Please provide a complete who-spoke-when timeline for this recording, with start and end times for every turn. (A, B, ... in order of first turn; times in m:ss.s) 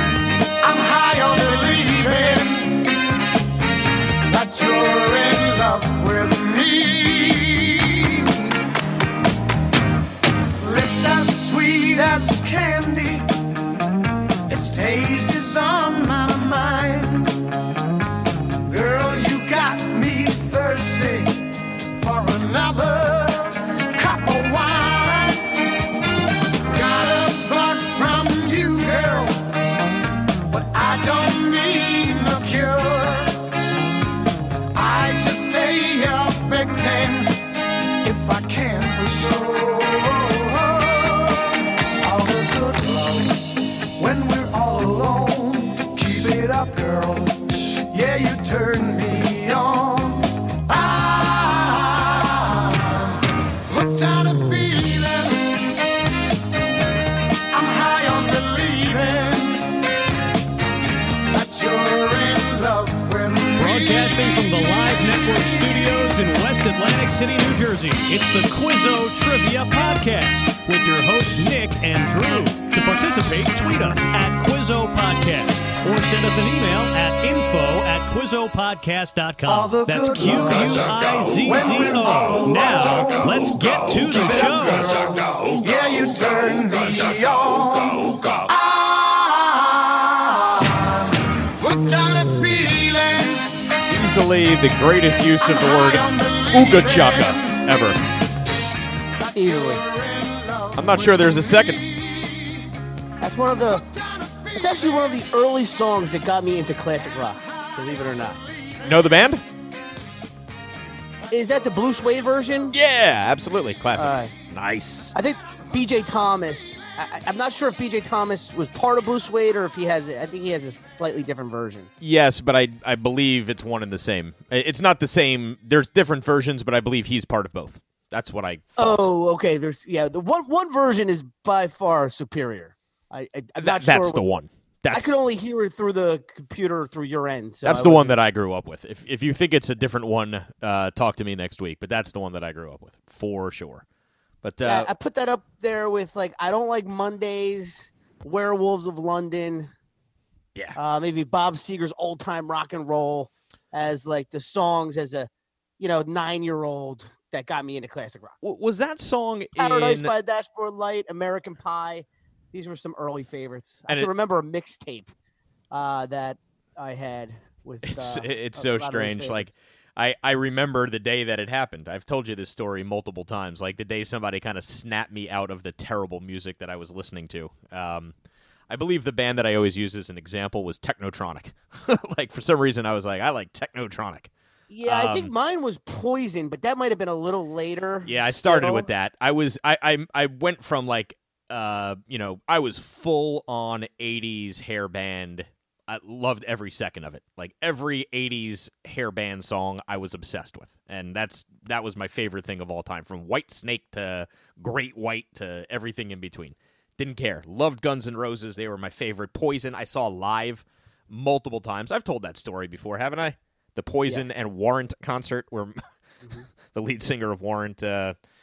0:00.6-0:02.9 A
0:04.2-0:08.5 A
0:10.6-0:13.3 A
0:14.5-0:17.4 A
0:18.6-0:25.6 A
0:26.7-0:29.5 A
0:30.5-0:33.5 A
0:34.7-0:37.4 A
0:38.0-0:55.6 A
0:57.5-0:59.7 A
1:01.3-1:04.4 A
1:03.6-1:24.9 B
1:19.4-1:33.6 A
1:33.9-1:38.0 C
1:35.4-1:37.6 A
1:39.2-1:42.7 A
1:39.3-1:39.8 D
1:40.7-1:41.8 C
1:43.2-1:43.8 D
1:43.7-1:45.1 A
1:44.5-1:48.4 D
1:48.8-1:49.4 C
1:51.3-1:52.7 D
1:52.7-1:55.1 C
1:54.0-1:54.3 D
1:55.1-2:01.9 D
2:02.0-2:09.1 C
2:08.8-2:14.3 D
2:13.6-2:15.1 C
2:14.9-2:18.2 D
2:17.6-2:23.8 C
2:24.4-2:24.9 C
2:24.6-2:29.7 D
2:30.8-2:38.3 D
2:38.4-2:40.1 C
2:39.6-2:45.1 D
2:45.7-2:49.5 D
2:47.8-2:58.1 C
2:58.7-3:04.3 C
3:04.7-3:08.9 D
3:04.8-3:05.3 C
3:08.0-3:35.8 C
3:36.7-3:38.2 C